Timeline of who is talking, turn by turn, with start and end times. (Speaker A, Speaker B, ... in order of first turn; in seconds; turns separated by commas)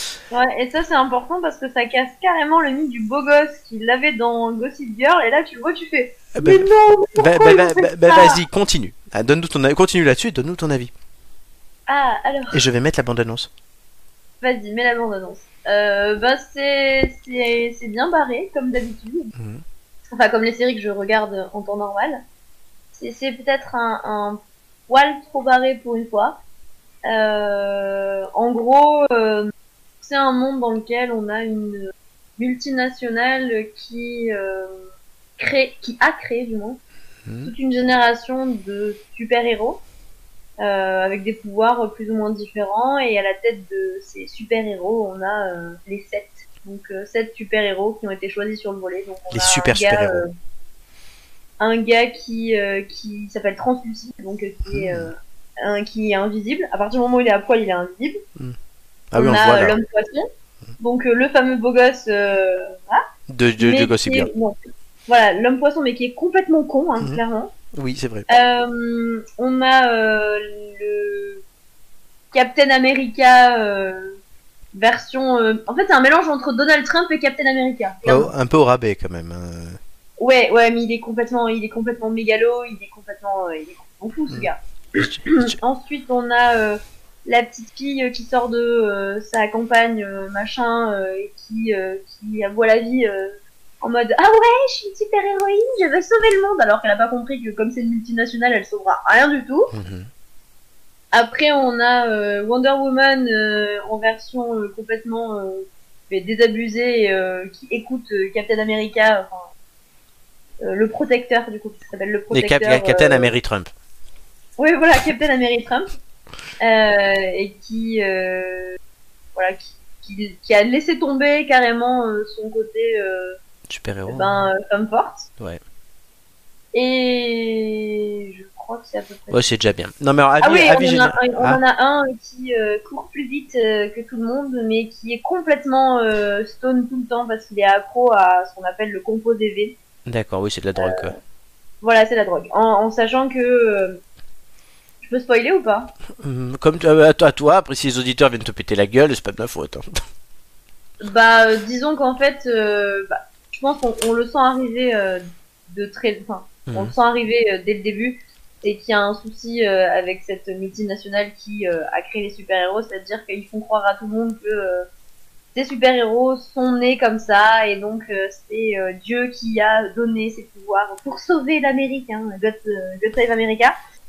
Speaker A: 0.3-8.4, Speaker B: 6.3-10.9, Speaker A: 11.9-12.7, Speaker B: 12.5-13.5, Speaker A: 14.4-19.3, Speaker B: 19.4-19.6, Speaker A: 20.1-22.2, Speaker A: 22.9-26.4, Speaker A: 27.1-36.8, Speaker B: 37.3-37.5, Speaker A: 37.4-39.8, Speaker A: 40.6-50.3, Speaker B: 49.3-50.2, Speaker A: 51.6-58.2, Speaker B: 54.7-55.1, Speaker B: 59.1-59.8, Speaker A: 59.2-60.3, Speaker A: 60.8-63.0, Speaker B: 63.3-64.3, Speaker A: 63.6-67.5, Speaker B: 67.7-68.3, Speaker A: 68.3-71.4, Speaker A: 72.3-74.2, Speaker A: 74.7-78.3, Speaker B: 78.1-79.8, Speaker A: 80.2-99.7, Speaker B: 84.3-85.5, Speaker B: 99.7-100.1, Speaker A: 101.1-109.5, Speaker A: 110.6-113.3, Speaker B: 112.3-113.7, Speaker A: 114.6-115.9, Speaker A: 116.6-118.8, Speaker A: 119.3-123.4, Speaker B: 123.7-124.4, Speaker A: 124.1-125.3, Speaker A: 126.7-129.4, Speaker B: 129.3-131.6, Speaker A: 130.4-139.8, Speaker B: 140.1-141.2, Speaker A: 140.8-141.2, Speaker A: 141.8-144.0, Speaker A: 145.0-145.9, Speaker B: 146.2-150.0, Speaker A: 151.0-164.9, Speaker B: 156.7-156.9, Speaker A: 165.6-173.8